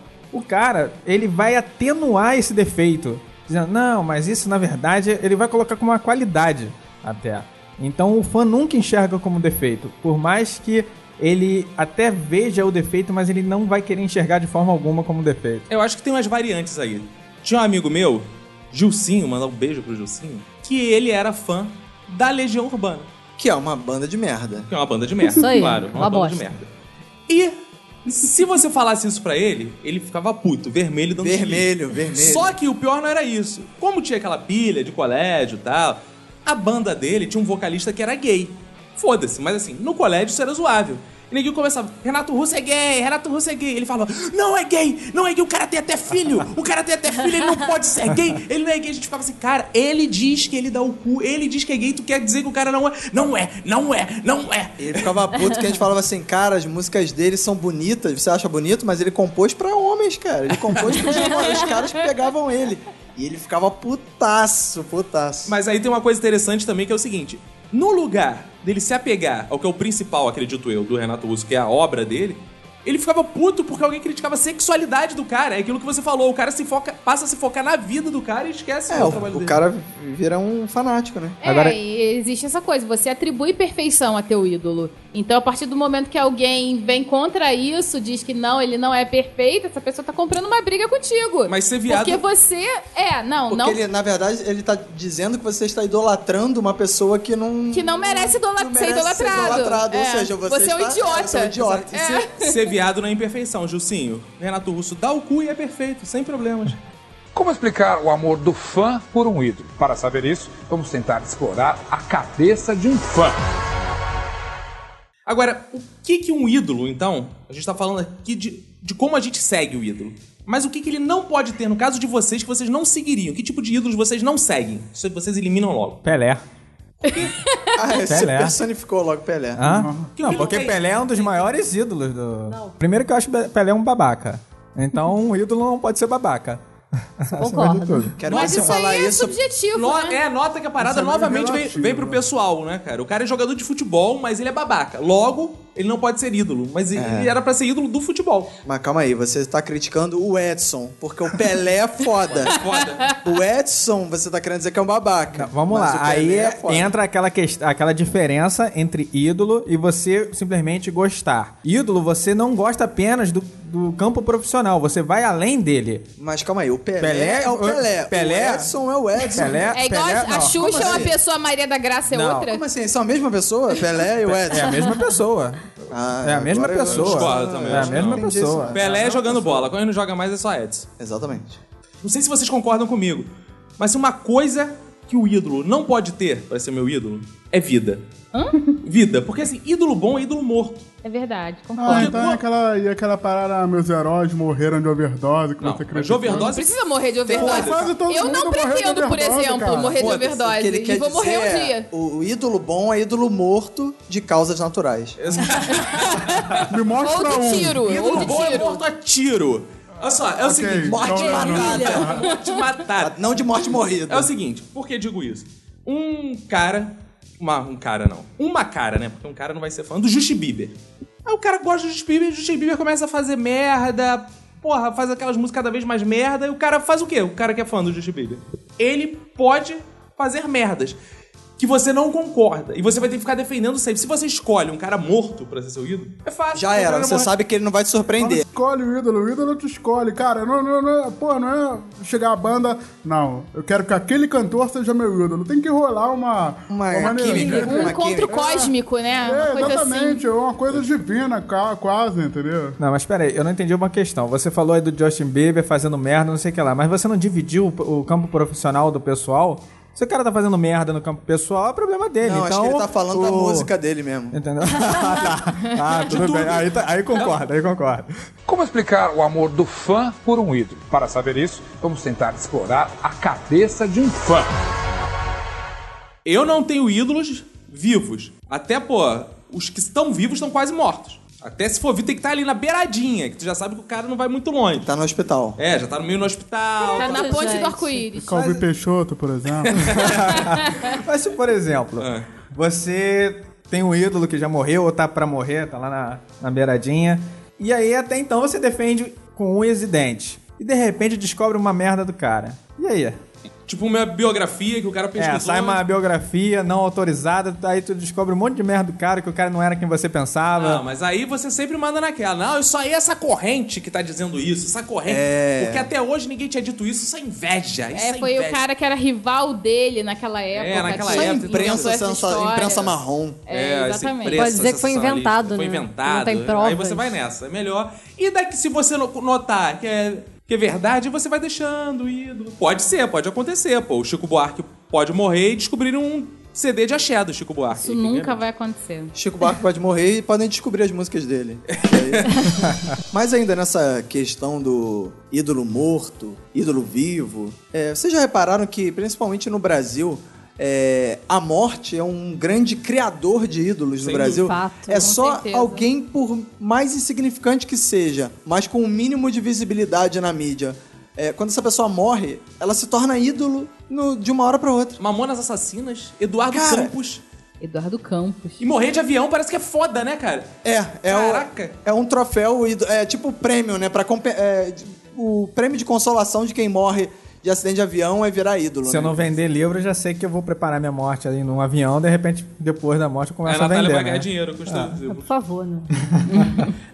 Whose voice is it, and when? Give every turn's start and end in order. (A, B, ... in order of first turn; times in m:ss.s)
0:00.3-0:15.7 A
0:15.7-0:23.1 B
0:23.4-0:24.7 C
0:24.7-0:26.7 B
0:25.2-0:26.5 D
0:27.3-0:55.1 B
0:31.2-0:32.6 C
0:54.8-1:05.6 C
1:00.6-1:01.7 B
1:05.5-1:19.6 B
1:18.9-1:21.4 C
1:21.4-1:33.8 E
1:21.4-1:21.8 A
1:31.5-1:32.2 B
1:33.5-1:42.2 C
1:37.7-1:42.6 E
1:42.4-1:46.8 B
1:47.3-1:53.4 F
1:55.3-2:06.0 B
2:06.0-2:06.4 A
2:07.0-2:07.8 E
2:07.8-2:09.6 C
2:08.1-2:08.6 A
2:09.6-2:16.6 A
2:09.6-2:10.1 G
2:10.2-2:11.5 B
2:12.5-2:12.8 D
2:17.2-2:18.2 A
2:17.3-2:18.4 D
2:18.2-2:19.4 C
2:18.3-2:20.2 E
2:19.8-2:28.5 B
2:20.8-2:22.2 G
2:26.9-2:27.3 C
2:28.6-2:32.6 C
2:32.3-2:33.1 B
2:32.5-2:33.2 E
2:33.2-2:36.9 C
2:35.3-2:46.1 A
2:46.2-2:49.8 C
2:47.0-2:48.7 A
2:49.4-2:51.1 A
2:49.7-2:52.7 E
2:50.4-2:51.2 C
2:52.1-2:52.5 A
2:52.5-2:54.8 C
2:54.3-2:58.8 A
2:55.9-2:59.7 C
2:56.9-3:00.9 B
3:01.0-3:01.6 C
3:02.0-3:08.0 B
3:08.3-3:08.8 E
3:08.8-3:10.9 B
3:11.0-3:12.4 E
3:11.8-3:16.5 G
3:11.9-3:12.3 B
3:15.6-3:16.8 B
3:16.4-3:21.9 E
3:17.3-3:18.0 C
3:17.3-3:20.0 G
3:17.4-3:17.8 B
3:19.9-3:20.4 B
3:20.4-3:25.5 C
3:25.2-3:26.6 B
3:25.7-3:28.8 E
3:26.7-3:28.3 G
3:27.7-3:33.2 B
3:30.4-3:32.3 G
3:30.8-3:32.1 C
3:31.4-3:32.3 E
3:33.0-3:34.3 C
3:34.1-3:51.0 B
3:51.6-3:57.3 B
3:56.5-3:58.4 C
3:58.2-4:12.8 G
4:06.7-4:08.5 C
4:07.3-4:10.2 E
4:12.8-4:23.7 A
4:22.2-4:24.4 C
4:24.3-4:28.1 A
4:26.1-4:27.4 B
4:28.5-4:34.5 F
4:36.2-4:44.9 B
4:44.8-4:45.6 C
4:45.6-4:47.4 B
4:46.9-4:48.1 D
4:47.0-4:48.4 E
4:48.2-4:50.2 G
4:48.3-4:48.6 A
4:49.7-4:50.0 B
4:49.8-5:03.2 A
4:50.5-4:50.9 E
4:52.0-4:52.3 B
5:03.7-5:05.8 B
5:05.2-5:10.8 A
5:10.6-5:18.6 B
5:15.1-5:15.9 C
5:17.9-5:24.5 E
5:20.5-5:21.9 B
5:20.8-5:23.4 C
5:23.5-5:38.4 B
5:24.3-5:27.2 D
5:37.8-5:39.2 E
5:39.2-5:42.5 C
5:41.7-5:42.5 B
5:43.1-6:05.0 C
5:54.0-5:54.5 B
5:54.4-5:55.1 D
5:55.0-5:55.9 E
6:05.0-6:07.2 B
6:06.5-6:06.9 C
6:07.6-6:08.6 E
6:08.6-6:10.6 B
6:10.6-6:19.2 C
6:11.1-6:11.8 B
6:18.8-6:25.0 A
6:23.4-6:25.3 B
6:25.1-6:25.9 D
6:26.0-6:26.7 A
6:26.3-6:26.7 E